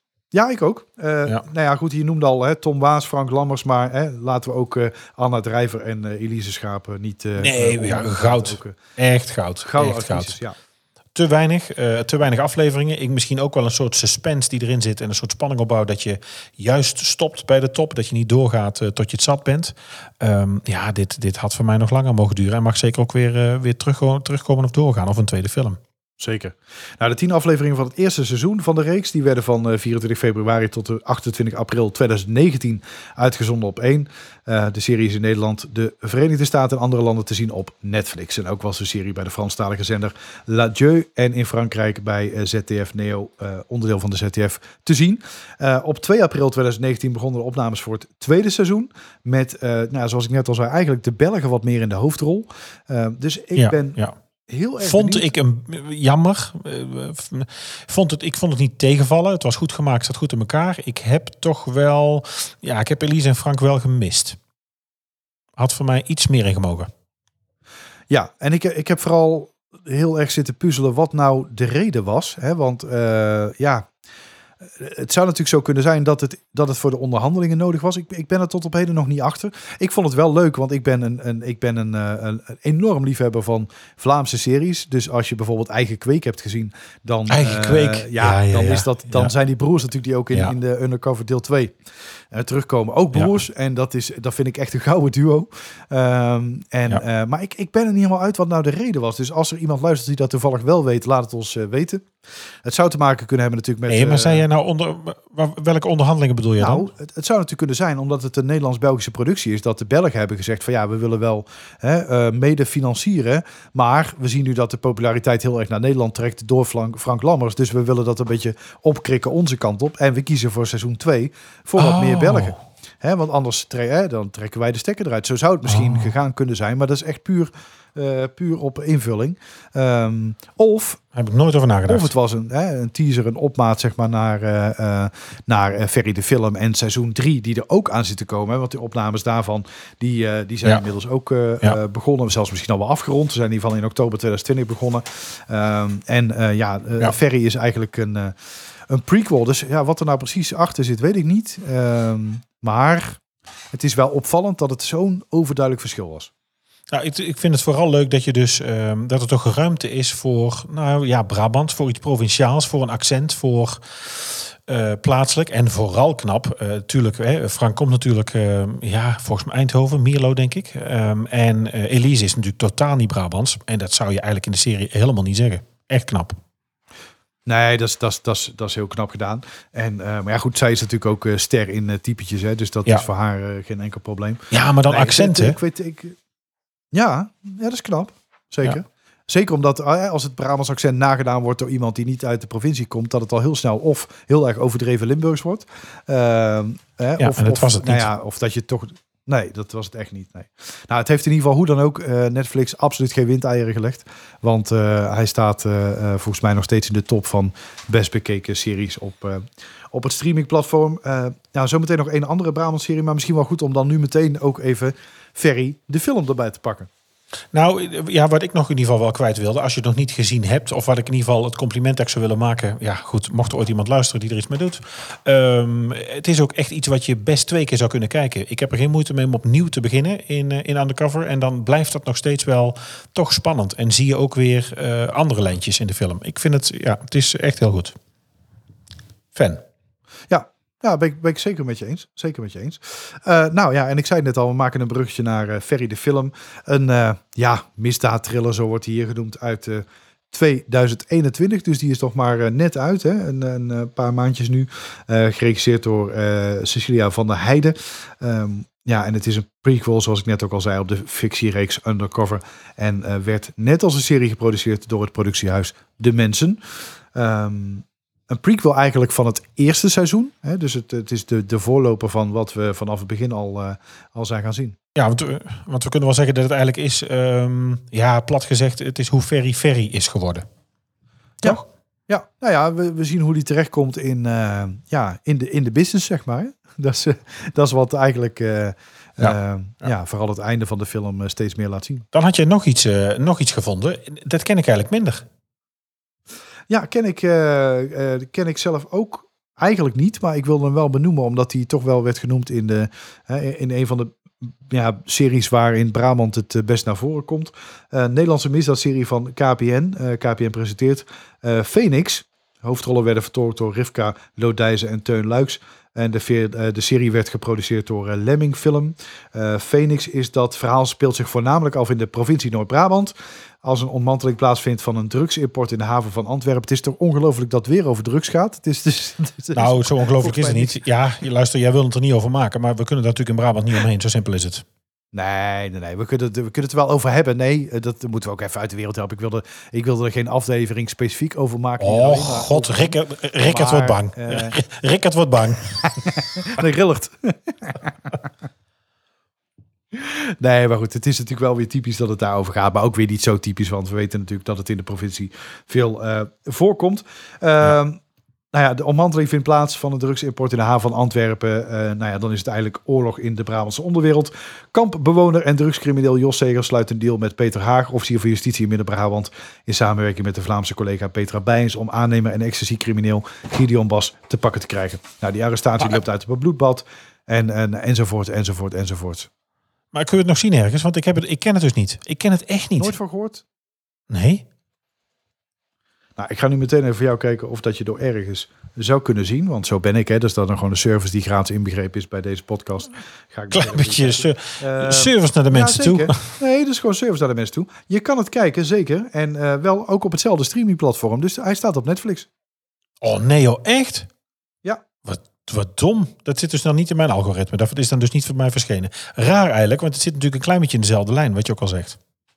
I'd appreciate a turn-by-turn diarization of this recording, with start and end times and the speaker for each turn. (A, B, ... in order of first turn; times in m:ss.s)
0:00.3-0:08.8 A
0:07.4-0:10.4 B
0:09.6-0:10.5 A
0:11.1-0:25.8 B
0:26.2-0:55.3 A
0:53.5-0:54.1 B
0:54.8-1:04.4 B
1:05.6-1:06.9 B
1:08.1-1:13.9 A
1:14.6-1:31.7 A
1:27.3-1:29.3 B
1:32.3-1:42.1 A
1:42.6-1:44.4 A
1:43.9-1:46.9 B
1:46.6-2:11.0 A
2:01.8-2:02.6 B
2:05.6-2:06.1 B
2:11.1-2:12.1 B
2:11.9-2:28.3 A
2:28.9-2:33.2 A
2:33.7-2:36.3 A
2:36.9-2:56.4 B
2:57.4-3:06.2 A
3:04.5-3:05.6 B
3:06.9-3:36.9 A
3:17.2-3:18.1 B
3:37.5-3:57.9 B
3:59.3-3:59.6 B
4:00.3-4:26.6 A
4:27.1-4:34.8 A
4:34.9-4:40.4 B
4:41.4-4:52.1 A
4:52.1-4:55.2 B
4:56.7-5:30.8 A
5:29.5-5:34.6 B
5:35.1-5:44.6 A
5:41.8-5:46.2 B
5:46.0-5:48.1 A
5:49.9-5:58.0 A
5:58.5-6:19.3 A
6:19.9-6:23.0 B
6:22.8-6:23.4 A
6:24.1-6:24.4 B
6:26.2-6:42.3 A
6:33.5-6:36.2 B
6:43.0-6:44.1 B
6:45.0-6:52.0 B